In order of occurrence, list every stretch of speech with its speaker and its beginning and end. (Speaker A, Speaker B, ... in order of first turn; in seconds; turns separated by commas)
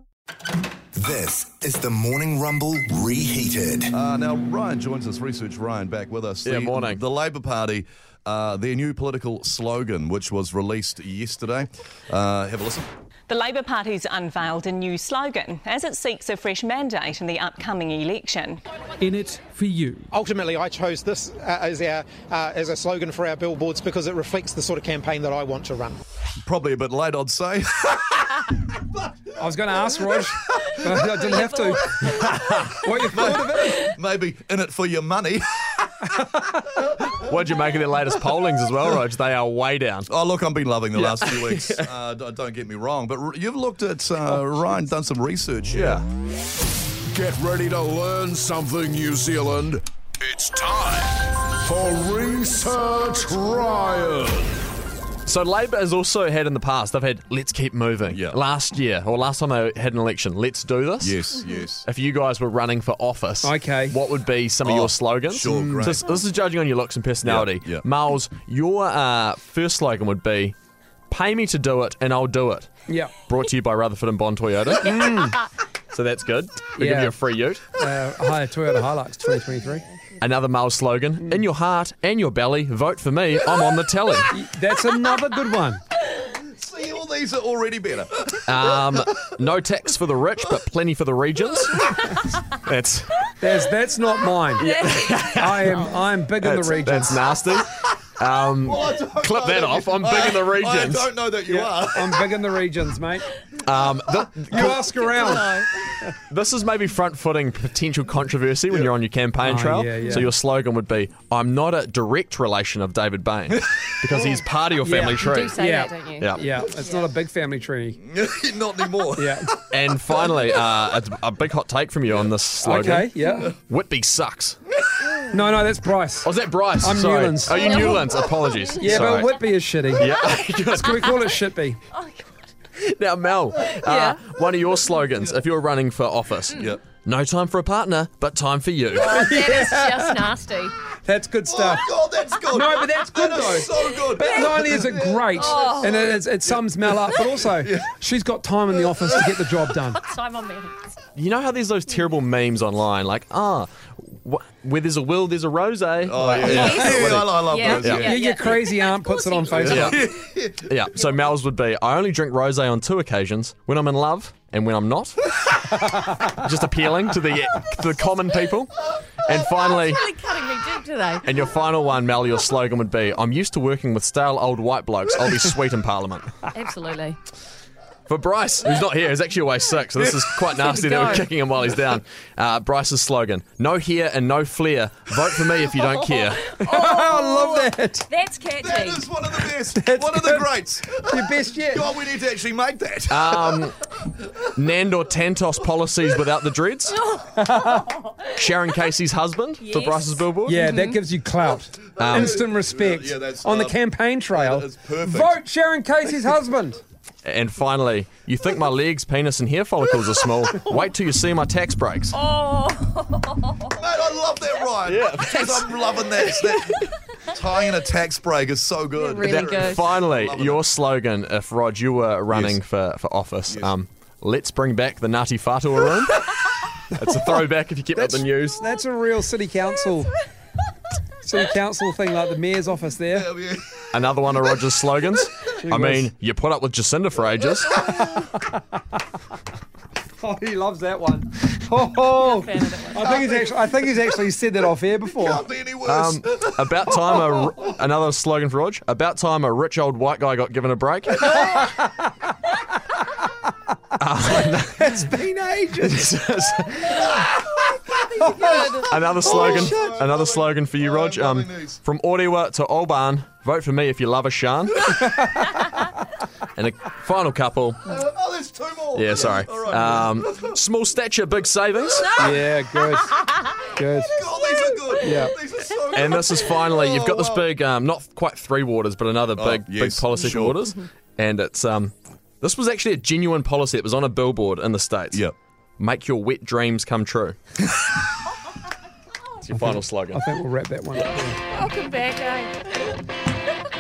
Speaker A: 1.0-3.9, Speaker B: 3.9-12.9, Speaker C: 6.5-7.0, Speaker D: 13.3-18.6, Speaker E: 20.1-26.0, Speaker B: 26.4-28.4, Speaker F: 29.4-33.9, Speaker G: 31.1-32.3, Speaker B: 32.9-36.0, Speaker C: 37.1-40.1, Speaker B: 40.1-46.0, Speaker C: 40.9-41.9, Speaker C: 45.7-46.0, Speaker H: 47.1-54.5, Speaker C: 55.3-61.2, Speaker B: 58.1-58.4, Speaker B: 61.0-61.9, Speaker C: 61.9-70.5, Speaker F: 63.4-64.0, Speaker B: 64.6-66.1, Speaker F: 65.5-65.8, Speaker B: 67.2-67.8, Speaker C: 71.1-72.7, Speaker F: 72.9-73.1, Speaker C: 73.2-75.1, Speaker F: 74.8-75.4, Speaker C: 75.9-77.6, Speaker F: 76.8-77.2, Speaker F: 77.8-79.8, Speaker C: 80.2-84.3, Speaker F: 84.3-85.8, Speaker B: 86.2-88.7, Speaker C: 88.5-91.9, Speaker C: 92.6-93.3, Speaker F: 93.4-94.8, Speaker C: 94.6-101.1, Speaker G: 94.6-95.2, Speaker F: 95.3-97.2, Speaker B: 98.6-102.4, Speaker F: 101.5-103.3, Speaker C: 103.6-104.9, Speaker F: 104.5-105.6, Speaker G: 104.9-105.7, Speaker C: 106.3-115.6, Speaker F: 109.4-110.3, Speaker F: 114.8-118.0, Speaker G: 115.1-117.1, Speaker B: 118.0-119.5, Speaker F: 119.2-119.5, Speaker C: 119.7-124.6, Speaker B: 120.1-120.6, Speaker F: 122.6-123.5, Speaker B: 124.8-125.2, Speaker F: 125.3-128.0, Speaker C: 126.2-129.3, Speaker G: 127.5-129.1, Speaker F: 128.8-130.2, Speaker C: 130.0-131.2, Speaker F: 130.7-131.8, Speaker G: 131.9-132.3, Speaker C: 132.8-139.2, Speaker G: 133.8-134.2, Speaker B: 136.5-136.8, Speaker G: 139.0-140.7, Speaker F: 139.1-140.3, Speaker F: 141.0-141.9, Speaker B: 141.5-147.9, Speaker F: 142.5-150.0, Speaker G: 144.2-144.6, Speaker G: 145.3-146.2, Speaker B: 148.9-149.3, Speaker G: 150.0-150.8, Speaker C: 151.2-158.2, Speaker B: 156.0-158.2, Speaker F: 156.4-160.1, Speaker G: 156.5-159.9, Speaker C: 159.6-160.0, Speaker B: 159.7-160.7, Speaker C: 160.7-165.2, Speaker C: 166.1-168.7, Speaker C: 169.2-170.1, Speaker G: 169.7-171.3, Speaker C: 171.2-176.3, Speaker G: 176.5-177.2, Speaker C: 178.1-186.4, Speaker G: 180.7-181.3, Speaker F: 186.4-188.1, Speaker G: 186.5-189.1, Speaker B: 188.6-193.7, Speaker F: 189.7-191.9, Speaker C: 193.1-193.8, Speaker C: 194.6-197.0, Speaker G: 197.0-198.1, Speaker F: 197.3-198.1, Speaker C: 198.3-200.7, Speaker G: 199.6-201.0, Speaker F: 200.4-206.8, Speaker C: 202.0-202.4, Speaker B: 202.0-203.8, Speaker B: 204.3-205.4, Speaker C: 207.2-212.2, Speaker G: 212.1-213.7, Speaker B: 213.8-220.7, Speaker C: 214.9-216.2, Speaker G: 218.9-219.9, Speaker C: 219.2-226.3, Speaker B: 222.3-222.6, Speaker C: 226.9-228.7, Speaker F: 228.0-230.2, Speaker F: 231.2-233.3, Speaker B: 233.1-234.5, Speaker C: 233.9-237.8, Speaker F: 235.6-236.1, Speaker F: 237.8-238.6, Speaker F: 240.2-245.4, Speaker G: 242.1-243.3, Speaker B: 243.1-243.4, Speaker B: 245.2-247.6, Speaker C: 245.9-251.7, Speaker C: 254.0-255.1, Speaker F: 254.7-256.1, Speaker C: 255.8-257.3, Speaker F: 258.2-258.8, Speaker G: 258.2-258.9, Speaker C: 258.8-264.9, Speaker B: 258.9-261.8, Speaker F: 259.4-259.9, Speaker C: 266.6-267.9, Speaker B: 267.9-270.6, Speaker C: 268.9-272.2, Speaker F: 272.1-274.2, Speaker B: 274.1-277.5, Speaker F: 275.0-275.4, Speaker C: 275.9-285.2, Speaker B: 279.4-280.6, Speaker C: 285.8-287.4, Speaker C: 289.4-290.4, Speaker F: 289.5-291.4, Speaker G: 291.5-292.8